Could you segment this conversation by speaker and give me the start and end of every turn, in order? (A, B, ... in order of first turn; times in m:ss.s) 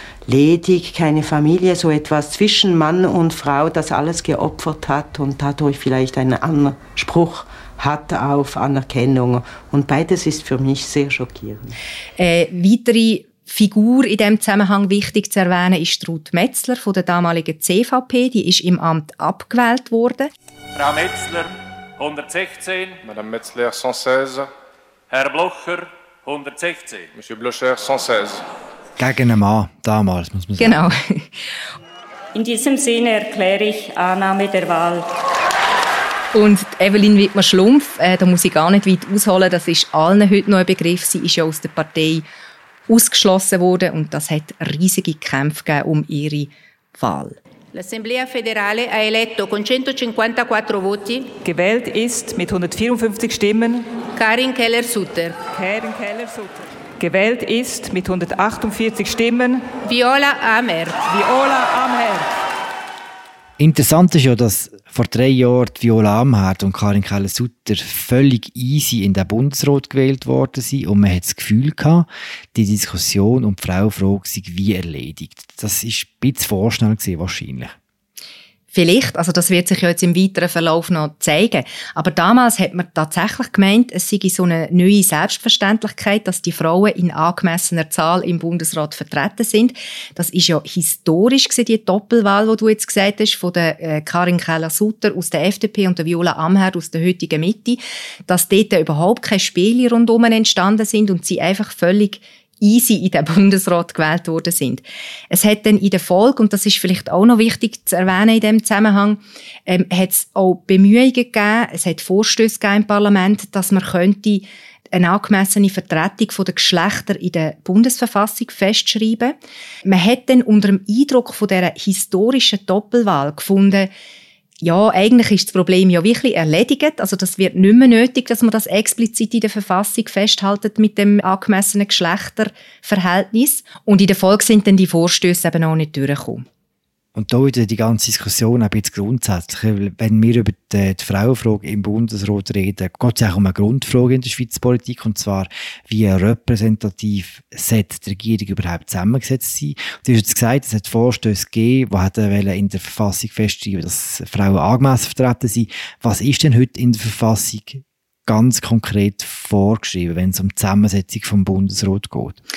0:00.3-0:11.8 A
0:12.2-0:20.3 B
0:20.8-0:23.0 C
0:23.0-0:24.5 D
0:25.1-0:27.1 C
0:27.2-0:28.4 D
0:29.0-0:30.9 E
0:30.6-0:31.2 B
0:32.4-0:35.1 F
0:36.3-0:42.3 B
0:42.9-0:47.4 B
0:47.7-0:51.3 G
0:51.4-0:54.0 H
0:54.1-0:55.4 G
0:55.5-0:59.7 H
0:59.8-1:01.1 G
1:01.0-1:02.2 H
1:03.6-1:17.8 E
1:18.7-1:59.3 B
1:59.8-2:03.9 B
2:04.6-2:16.4 B
2:17.1-2:42.4 E